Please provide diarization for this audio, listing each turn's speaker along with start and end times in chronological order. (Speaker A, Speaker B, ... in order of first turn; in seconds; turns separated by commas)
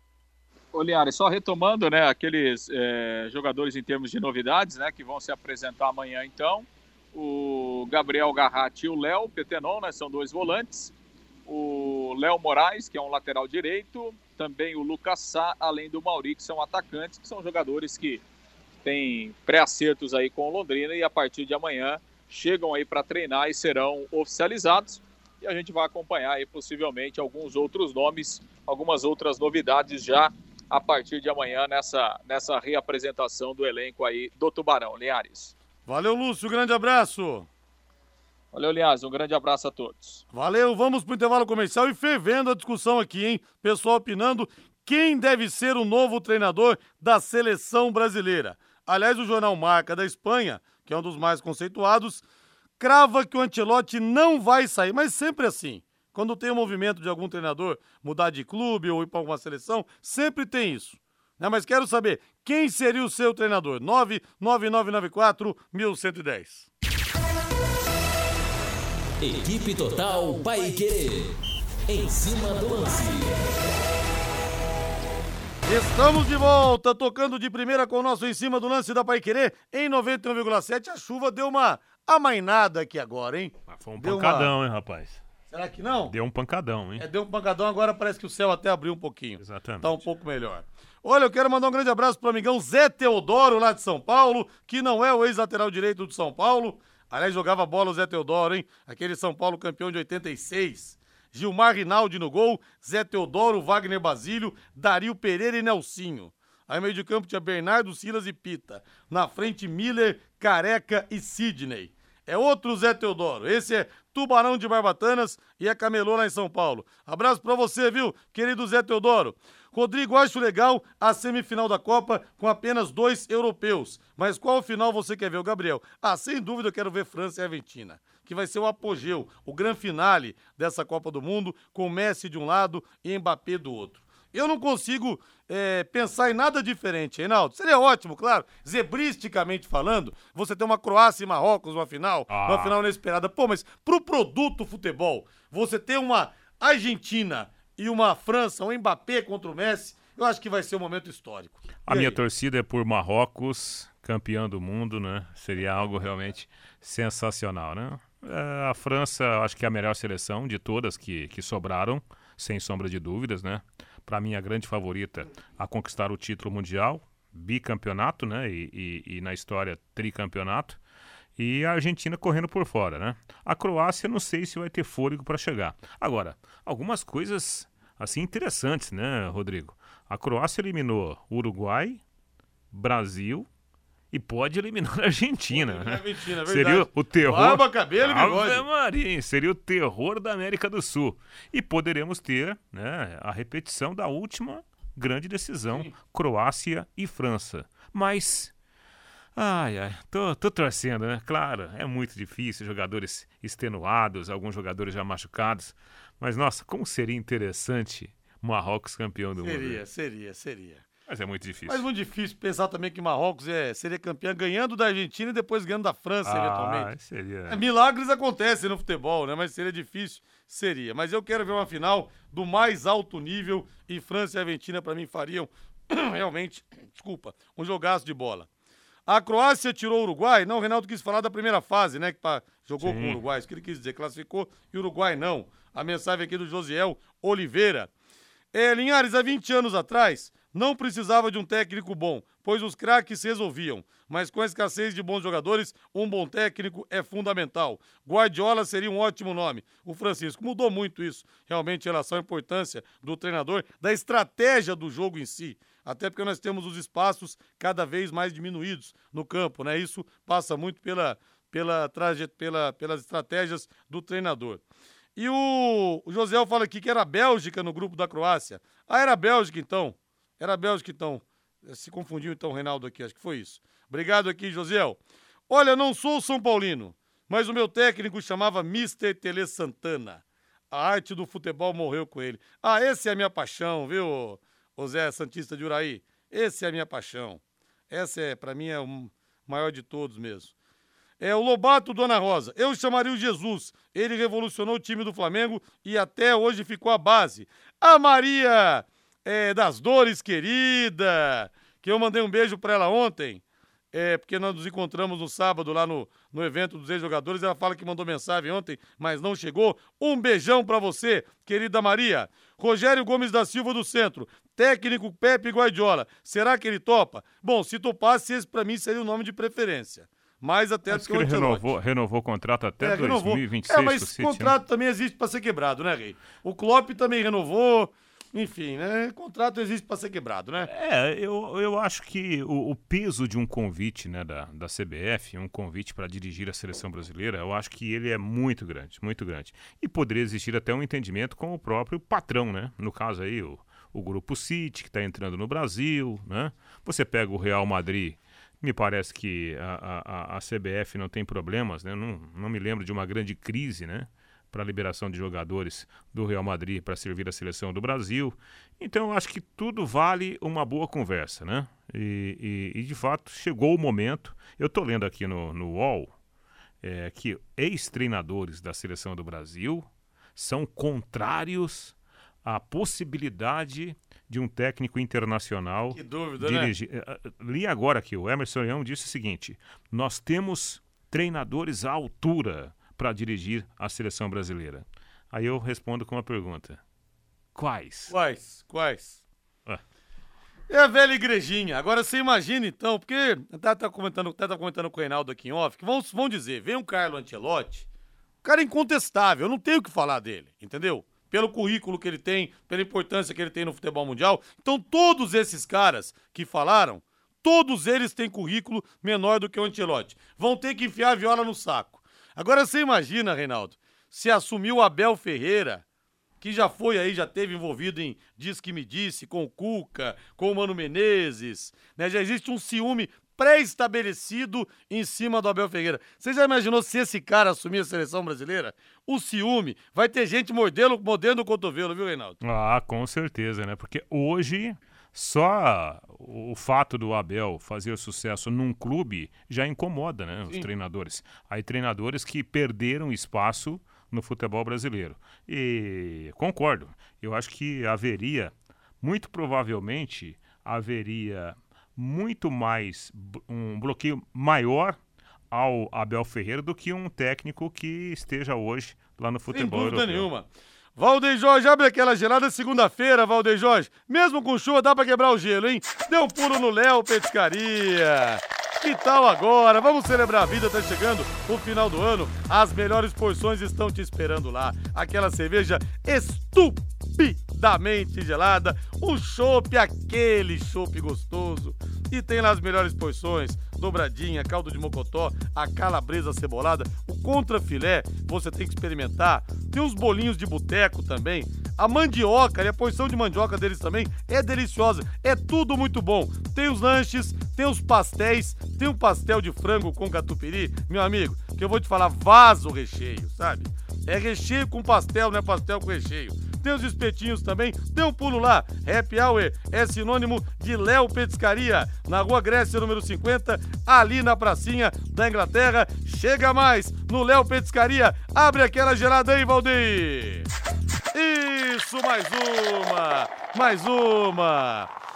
Speaker A: 0.7-10.9, Speaker A: 11.5-18.2, Speaker A: 18.8-35.5, Speaker B: 35.9-37.5, Speaker A: 38.5-40.2, Speaker B: 40.3-52.2, Speaker B: 52.8-66.7, Speaker C: 69.3-71.1, Speaker C: 71.9-73.2, Speaker B: 75.6-84.5, Speaker D: 83.7-85.2, Speaker B: 85.5-86.1, Speaker D: 86.1-87.0, Speaker B: 87.0-152.2, Speaker D: 89.4-90.0, Speaker D: 142.3-142.7, Speaker D: 151.8-170.8, Speaker D: 171.4-182.0, Speaker D: 182.7-183.5, Speaker D: 184.1-198.5, Speaker B: 185.5-188.6, Speaker D: 199.3-209.8, Speaker B: 209.4-210.8, Speaker D: 211.1-211.8, Speaker B: 211.7-216.9, Speaker D: 216.2-217.6, Speaker B: 217.5-228.5, Speaker B: 229.1-237.9, Speaker D: 232.8-233.2, Speaker B: 238.5-264.6, Speaker B: 265.1-290.5, Speaker B: 291.2-321.6, Speaker D: 320.9-324.6, Speaker B: 322.8-330.7, Speaker D: 330.7-366.1, Speaker D: 366.8-386.8, Speaker B: 375.9-376.7, Speaker D: 387.6-388.1, Speaker B: 388.1-389.2, Speaker B: 390.7-397.9, Speaker B: 398.4-415.8, Speaker B: 416.4-432.4, Speaker D: 432.4-455.0, Speaker D: 455.5-460.3, Speaker B: 459.5-520.5, Speaker B: 521.1-524.9